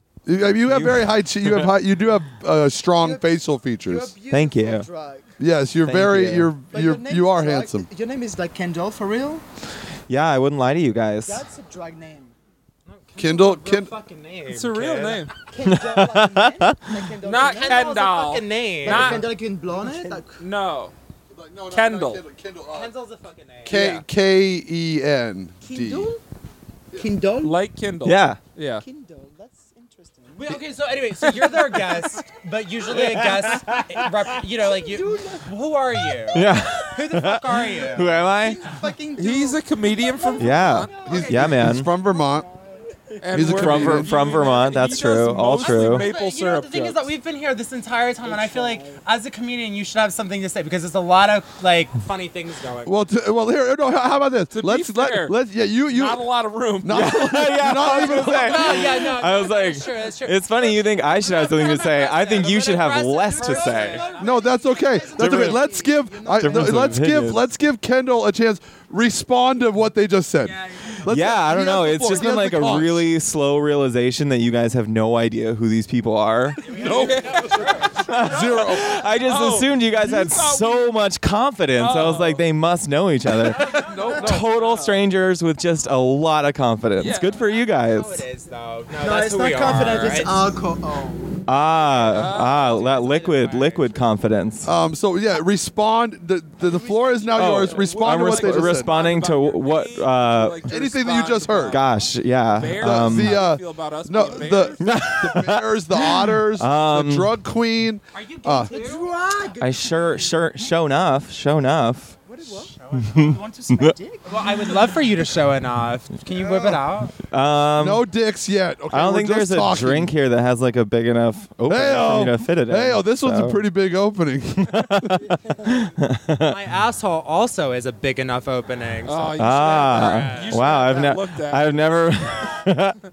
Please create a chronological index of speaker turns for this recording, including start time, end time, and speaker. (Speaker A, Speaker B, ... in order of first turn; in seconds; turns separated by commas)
Speaker A: 0.3-4.1, Speaker B: 0.7-1.0, Speaker C: 3.0-5.3, Speaker B: 4.3-4.9, Speaker A: 5.4-7.9, Speaker B: 5.8-6.5, Speaker C: 6.7-9.4, Speaker B: 10.1-11.4, Speaker C: 11.2-12.3, Speaker D: 12.9-15.3, Speaker A: 13.2-13.9, Speaker E: 14.5-15.3, Speaker C: 15.5-18.0, Speaker B: 15.6-17.1, Speaker E: 17.2-19.2, Speaker D: 17.3-19.3, Speaker C: 18.8-20.4, Speaker E: 20.4-20.9, Speaker A: 21.3-22.9, Speaker E: 21.7-22.2, Speaker D: 22.7-24.0, Speaker A: 23.6-26.1, Speaker E: 23.7-24.0, Speaker C: 25.6-26.2, Speaker C: 26.9-27.6, Speaker E: 27.4-28.8, Speaker B: 28.1-28.4, Speaker C: 28.8-30.6, Speaker D: 30.3-38.2, Speaker E: 31.2-32.0, Speaker C: 34.6-35.5, Speaker B: 36.3-38.7, Speaker C: 37.9-41.4, Speaker E: 39.2-40.9, Speaker B: 40.4-41.9, Speaker A: 41.0-42.5, Speaker E: 43.2-47.1, Speaker A: 43.3-44.3, Speaker B: 43.4-46.1, Speaker D: 45.6-53.0, Speaker C: 48.2-49.0, Speaker A: 52.8-56.3, Speaker E: 54.5-55.4, Speaker E: 55.9-57.1, Speaker A: 56.8-59.0, Speaker B: 56.9-64.1, Speaker D: 57.8-64.4, Speaker C: 63.3-67.0, Speaker A: 64.2-73.1, Speaker B: 65.2-65.7, Speaker B: 66.4-67.5, Speaker D: 70.4-71.0, Speaker B: 71.1-76.7, Speaker D: 76.6-78.1, Speaker A: 76.7-78.9, Speaker E: 76.9-77.6, Speaker B: 78.0-88.3, Speaker E: 79.2-81.0, Speaker E: 81.8-82.4, Speaker A: 83.7-84.7, Speaker E: 87.0-87.4, Speaker D: 87.5-90.5, Speaker C: 88.9-91.3, Speaker B: 91.5-94.7, Speaker D: 92.0-94.0, Speaker E: 92.1-92.7, Speaker A: 94.6-98.9, Speaker C: 96.6-97.5, Speaker B: 97.3-100.7, Speaker E: 97.7-101.9, Speaker A: 100.7-101.8, Speaker B: 101.7-103.4, Speaker E: 102.5-104.8, Speaker A: 102.8-108.7, Speaker B: 104.8-107.3, Speaker D: 108.1-109.1, Speaker C: 108.7-110.4, Speaker B: 109.6-112.2, Speaker C: 112.3-114.9, Speaker B: 113.2-114.0, Speaker D: 114.3-117.2, Speaker C: 116.3-116.8, Speaker B: 117.3-118.1, Speaker A: 117.7-120.1, Speaker B: 118.9-123.6, Speaker A: 121.7-125.3, Speaker B: 124.6-126.6, Speaker D: 126.5-130.9, Speaker E: 129.1-131.7, Speaker B: 129.4-133.0